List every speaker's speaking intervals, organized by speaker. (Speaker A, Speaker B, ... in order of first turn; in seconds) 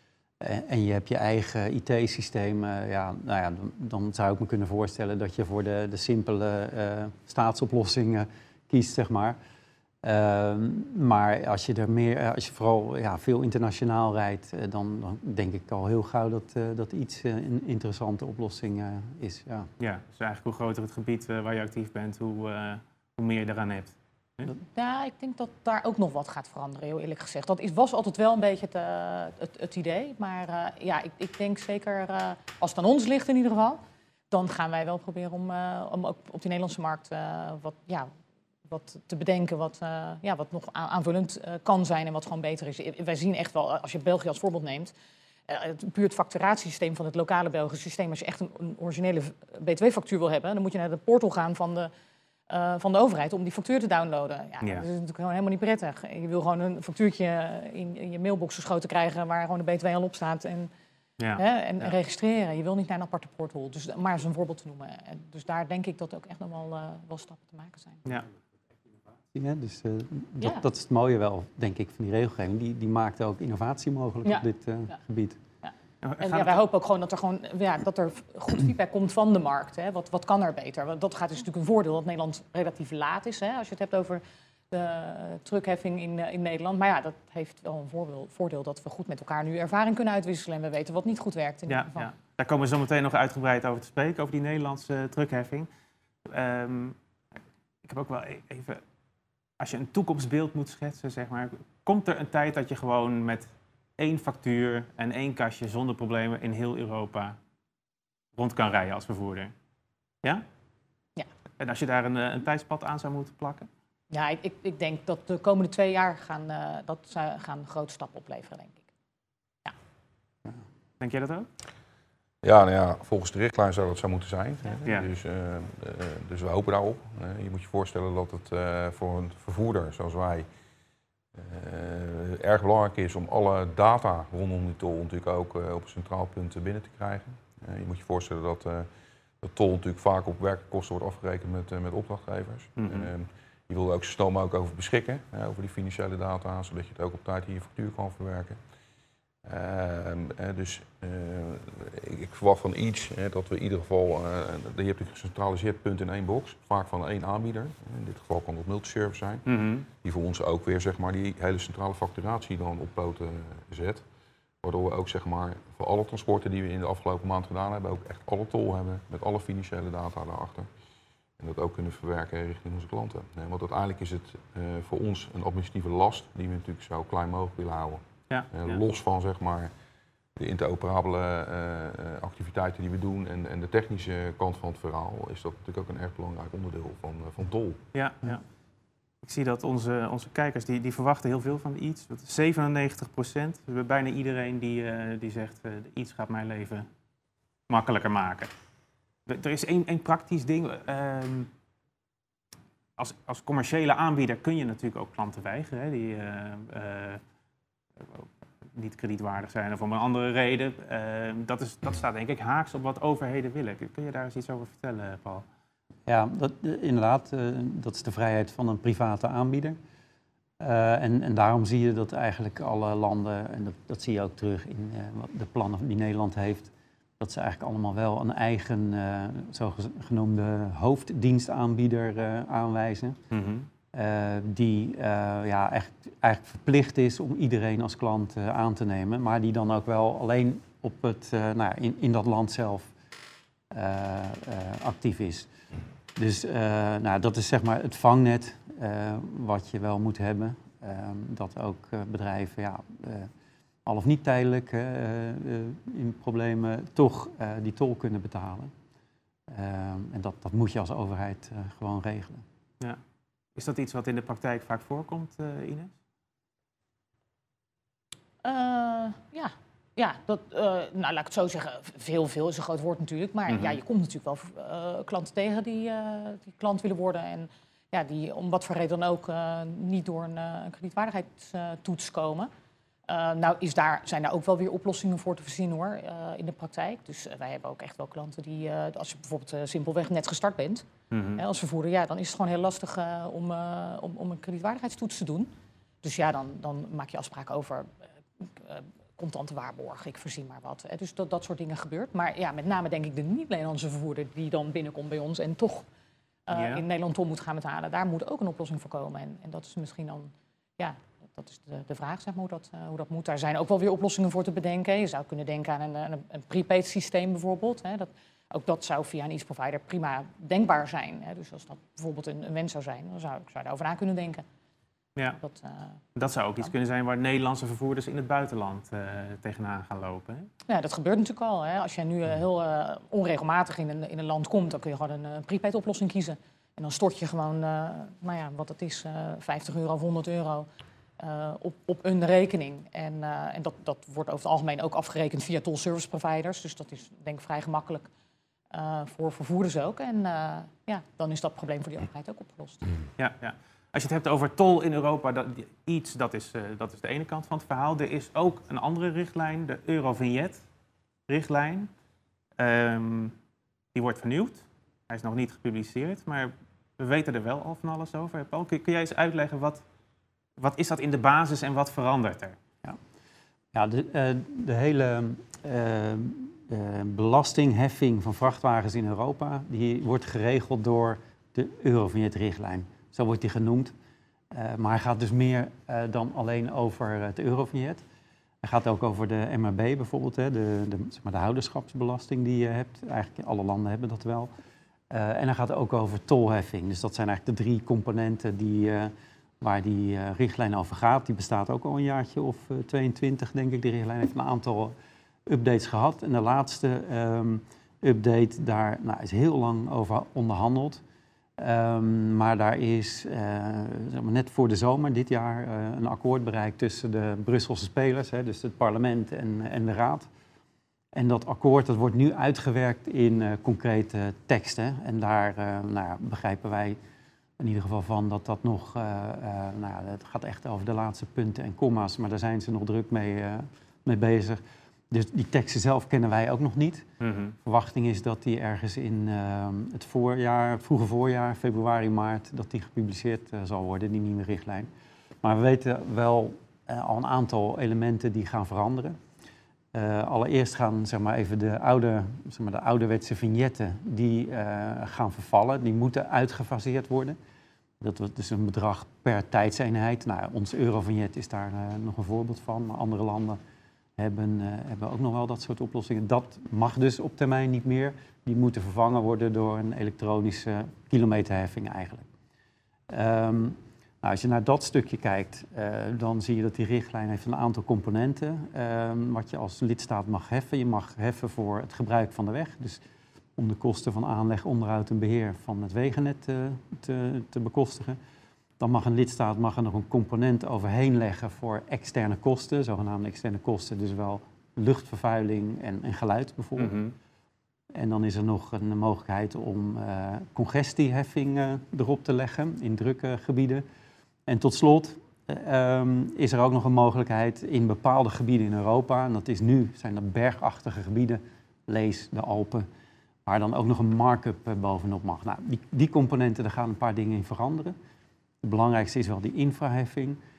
Speaker A: 0.4-9.4, 10.0-19.7, 69.3-75.4, 216.1-219.8, 220.6-233.2, 233.9-242.9, 243.7-245.5, 246.2-253.3, 253.9-258.7, 259.5-262.4, 373.7-383.9, 384.5-388.0, 388.6-394.5, 395.1-404.9, 405.5-411.0, 411.6-420.3, 421.1-427.0, 427.6-437.1, 437.6-444.9, 445.4-449.2, 449.9-457.4, 458.0-463.6, 464.2-472.3, 473.1-483.0, 483.6-488.2, 488.8-497.0, 497.9-503.8, 504.5-512.9, 513.5-518.0, 518.6-520.4
Speaker B: 19.8-24.5, 61.2-61.9, 76.0-76.6, 91.7-95.7, 96.3-97.0, 97.8-98.8, 99.6-103.5, 104.0-107.4, 108.3-109.5, 111.6-113.7, 121.0-121.5, 142.8-143.1, 159.5-159.9, 178.3-178.8, 187.9-188.4, 189.2-196.9, 197.7-198.5, 199.3-201.5, 203.0-207.2, 208.0-215.4, 233.3-233.7, 263.6-265.9, 273.5-273.8, 291.1-291.4, 306.5-306.8, 325.2-325.4, 326.1-330.5, 353.2-360.6, 361.3-361.9, 362.6-363.3, 363.9-369.8, 370.6-372.6, 437.2-437.5, 496.8-497.1
Speaker C: 24.7-38.1, 38.7-44.9, 45.5-51.9, 52.5-60.7, 61.4-68.1, 75.6-92.1, 114.1-118.8, 268.4-282.5, 283.1-295.5, 296.0-297.9, 298.6-305.9, 306.5-324.4, 325.4-326.0, 330.7-348.1, 348.7-352.9
Speaker D: 122.4-130.5, 131.3-138.9, 139.4-148.6, 149.4-159.5, 160.0-164.0, 164.6-170.7, 171.4-179.7, 180.4-187.8